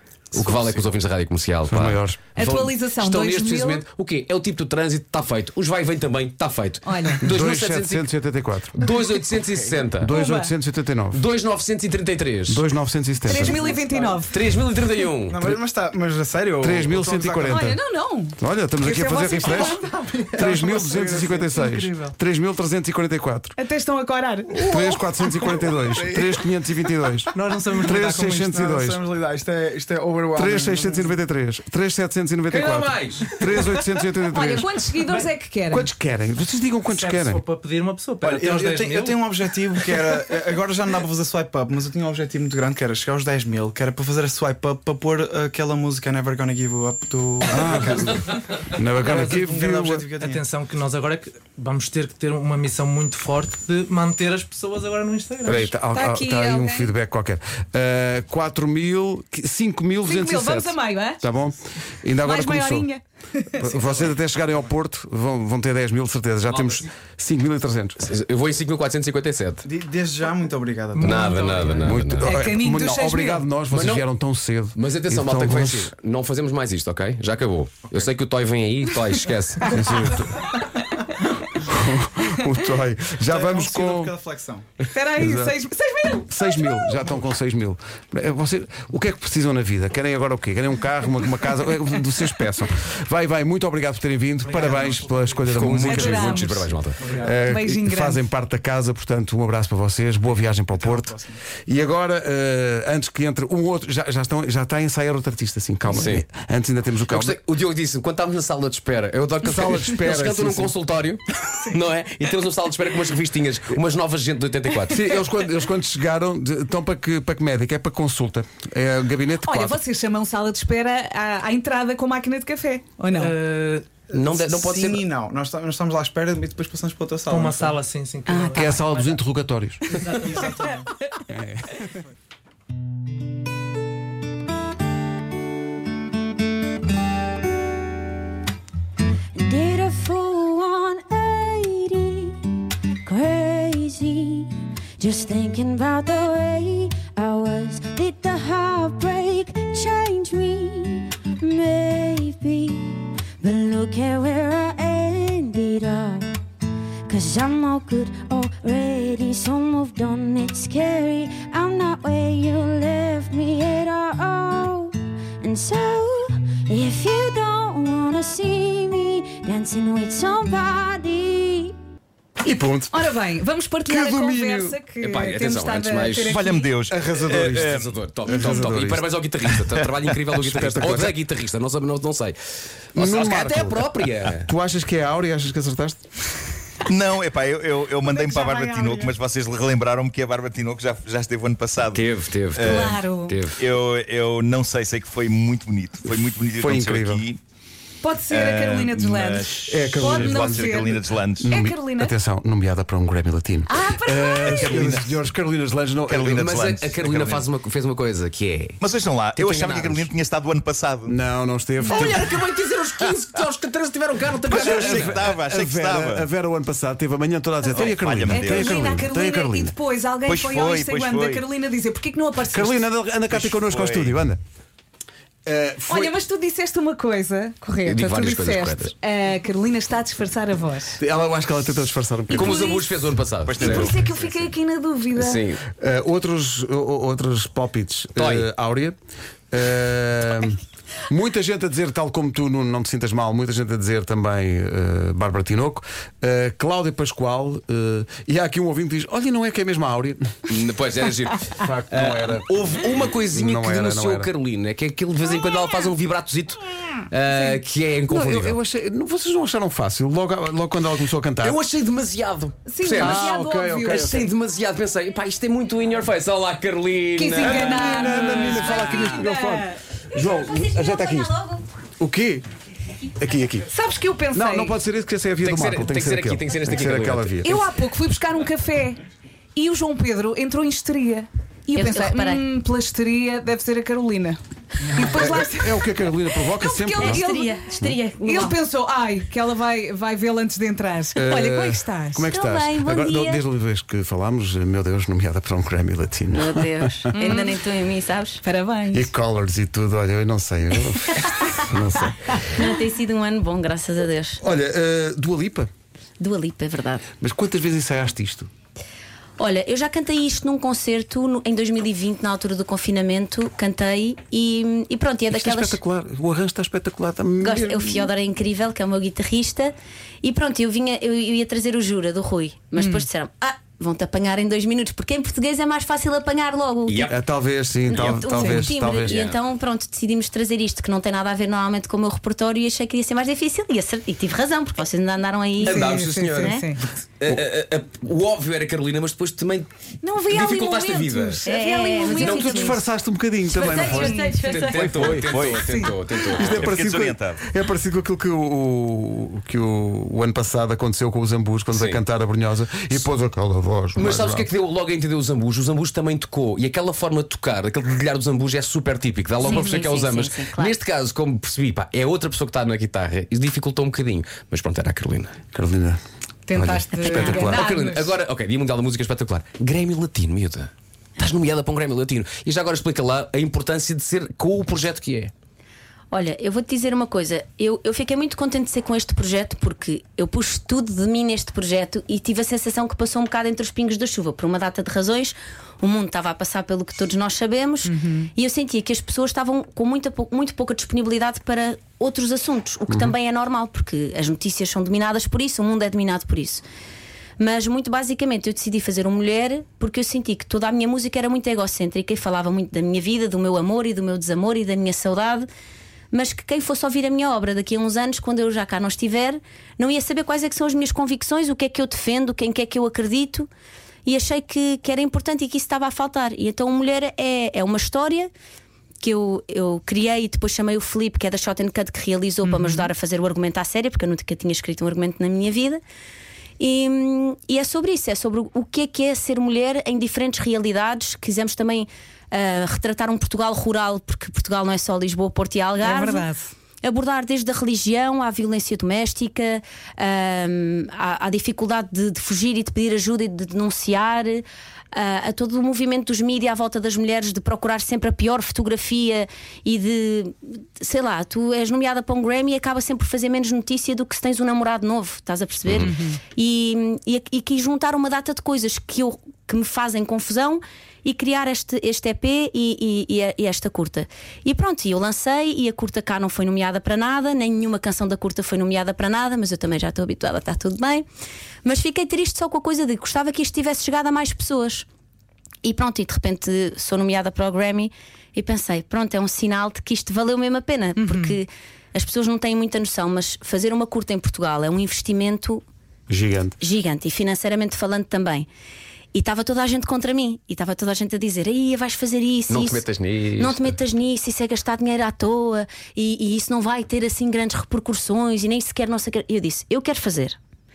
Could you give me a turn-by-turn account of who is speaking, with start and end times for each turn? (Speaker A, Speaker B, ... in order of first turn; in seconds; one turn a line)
Speaker A: 0.3-8.1
Speaker B: 1.7-2.2
Speaker C: 2.3-3.8
Speaker C: 6.8-7.2
Speaker B: 7.2-8.8
Speaker A: 8.8-10.1
Speaker D: 9.6-9.9
Speaker B: 10.0-11.2
Speaker C: 10.1-10.5
Speaker A: 11.1-12.6
Speaker B: 12.5-13.6
Speaker C: 13.2-14.4
Speaker D: 13.3-14.2
Speaker A: 14.3-15.4
Speaker D: 15.3-17.7
Speaker B: 16.6-17.8
Speaker C: 17.5-20.0
Speaker B: 18.4-19.8
Speaker D: 19.6-21.7
Speaker B: 20.4-23.6
Speaker E: 21.6-22.1
Speaker C: 23.6-25.2
Speaker B: 24.5-29.0
Speaker D: 25.9-26.3
Speaker E: 27.3-28.5
Speaker D: 27.9-31.2
Speaker B: 30.4-34.7
Speaker A: 32.5-33.3
Speaker C: 34.3-35.9
Speaker B: 35.7-37.4
Speaker E: 36.9-39.2
Speaker D: 38.2-50.4
Speaker B: 47.5-48.2
Speaker B: 48.7-50.0
Speaker E: 49.1-49.4
Speaker E: 50.2-55.7
Speaker B: 55.5-62.9
Speaker C: 55.9-56.9
Speaker C: 60.0-61.2
Speaker C: 62.2-63.6
Speaker B: 63.6-68.0
Speaker A: 66.5-66.8
Speaker A: 68.0-69.6
Speaker D: 69.6-71.9
Speaker A: 71.0-72.4
Speaker E: 71.0-71.7
Speaker B: 71.8-75.9
Speaker C: 72.2-73.5
Speaker A: 73.7-74.0
Speaker A: 74.8-79.7
Speaker B: 79.7-80.4
Speaker B: 81.6-84.1
Speaker D: 83.3-84.7
Speaker C: 84.9-87.0
Speaker B: 85.2-85.6
Speaker B: 86.3-96.6
Speaker D: 94.5-95.4
Speaker A: 95.5-97.0
Speaker C: 95.8-96.7
Speaker D: 97.0-97.3
Speaker B: 97.1-107.4
Speaker C: 97.4-98.2
Speaker D: 100.7-101.4
Speaker A: 105.9-106.2
Speaker A: 107.1-115.2
Speaker B: 109.4-110.7
Speaker B: 114.9-119.8
Speaker C: 119.4-123.3
Speaker E: 123.1-123.8
Speaker D: 124.1-127.8
Speaker A: 124.1-125.0
Speaker E: 127.3-129.2
Speaker B: 128.5-129.8
Speaker E: 129.9-130.6
Speaker D: 130.3-130.8
Speaker B: 131.3-131.8
Speaker F: 139.3-142.4
Speaker F: 143.0-156.3
Speaker F: 157.1-171.7
Speaker B: 172.4-173.0
Speaker C: 172.9-176.8
Speaker B: 173.8-174.8
Speaker A: 175.0-176.4
Speaker G: 176.3-177.9
Speaker B: 176.9-179.1
Speaker A: 177.4-182.4
Speaker B: 180.3-181.1
Speaker A: 182.9-184.5
Speaker B: 182.9-186.0
Speaker G: 186.9-197.4
Speaker C: 188.1-189.1
Speaker A: 191.9-193.6
Speaker C: 192.7-193.4
Speaker B: 196.6-197.2
Speaker C: 198.0-202.1
Speaker G: 198.3-201.5
Speaker B: 199.7-206.6
Speaker C: 203.7-205.0
Speaker G: 204.4-205.1
Speaker G: 206.1-207.4
Speaker A: 206.2-208.8
Speaker G: 208.8-211.2
Speaker A: 209.3-210.1
Speaker B: 211.1-212.2
Speaker C: 211.8-212.1
Speaker A: 211.9-215.3
Speaker G: 214.4-216.2
Speaker B: 214.5-219.7
Speaker C: 217.6-222.8
Speaker G: 217.7-218.8
Speaker G: 220.2-221.4
Speaker B: 222.5-224.4
Speaker G: 223.3-224.2
Speaker B: 225.4-226.2
Speaker C: 225.9-231.0
Speaker A: 227.8-228.9
Speaker B: 231.0-232.7
Speaker A: 232.3-234.0
Speaker C: 232.3-232.9
Speaker G: 233.4-234.3
Speaker C: 233.6-235.4
Speaker A: 235.2-235.6
Speaker B: 235.8-238.9
Speaker A: 238.2-238.5
Speaker B: 239.5-250.3
Speaker A: 250.5-258.6
Speaker B: 251.6-254.3
Speaker C: 257.2-257.6
Speaker B: 258.1-261.6
Speaker A: 261.4-263.3
Speaker C: 262.6-264.3
Speaker B: 263.0-264.3
Speaker A: 263.9-269.1
Speaker C: 267.1-269.8
Speaker B: 267.4-271.4
Speaker B: 272.0-272.4
Speaker B: 273.2-273.7
Speaker C: 273.7-274.8
Speaker B: 274.3-277.6
Speaker A: 275.4-277.5
Speaker C: 277.4-279.0
Speaker C: 279.6-284.4
Speaker H: 281.7-282.4
Speaker C: 284.9-285.9
Speaker B: 284.9-288.0
Speaker C: 286.5-287.7
Speaker H: 287.0-288.6
Speaker C: 288.2-292.3
Speaker B: 291.1-297.1
Speaker H: 292.2-293.4
Speaker H: 296.3-298.4
Speaker C: 297.1-297.6
Speaker C: 298.4-299.1
Speaker B: 298.9-302.4
Speaker H: 302.6-304.4
Speaker B: 304.4-305.7
Speaker H: 306.2-307.1
Speaker B: 307.2-308.5
Speaker H: 309.4-315.8
Speaker B: 315.3-318.1
Speaker H: 317.4-327.1
Speaker C: 322.8-323.1
Speaker A: 326.9-327.2
Speaker B: 327.1-329.3
Speaker H: 327.9-336.7
Speaker A: 327.9-328.4
Speaker C: 328.3-328.7
Speaker A: 329.0-329.4
Speaker A: 335.6-336.6
Speaker C: 335.6-336.8
Speaker A: 337.2-339.7
Speaker C: 340.0-342.8
Speaker A: 340.2-341.5
Speaker H: 341.4-342.8
Speaker A: 342.1-342.4
Speaker B: 342.2-345.3
Speaker H: 343.5-344.7
Speaker C: 343.6-344.7
Speaker A: 343.7-346.8
Speaker G: 344.9-347.4
Speaker C: 345.6-345.9
Speaker B: 346.3-354.5
Speaker A: 351.7-352.0
Speaker A: 353.9-365.4
Speaker H: 359.4-360.8
Speaker C: 359.4-359.9
Speaker B: 365.5-366.0
Speaker C: 366.5-368.1
Speaker B: 366.5-367.6
Speaker A: 367.1-375.3
Speaker H: 376.1-396.6
Speaker C: 387.8-388.3
Speaker B: 392.9-393.1
Speaker H: 397.4-405.5
Speaker H: 406.1-413.5
Speaker H: 414.1-418.3
Speaker H: 419.0-425.8
Speaker C: 422.4-422.9
Speaker H: 426.6-436.3
Speaker C: 435.8-436.5
Speaker H: 436.8-471.1
Speaker A: 455.6-455.9
Speaker C: 455.8-456.2
Speaker H: 471.6-474.9
Speaker H: 475.6-485.6
Speaker C: 481.0-481.4
Speaker B: 486.1-486.6
Speaker H: 486.6-488.5
Speaker H: 489.1-492.8
Speaker A: 492.5-493.8
Speaker H: 493.4-500.4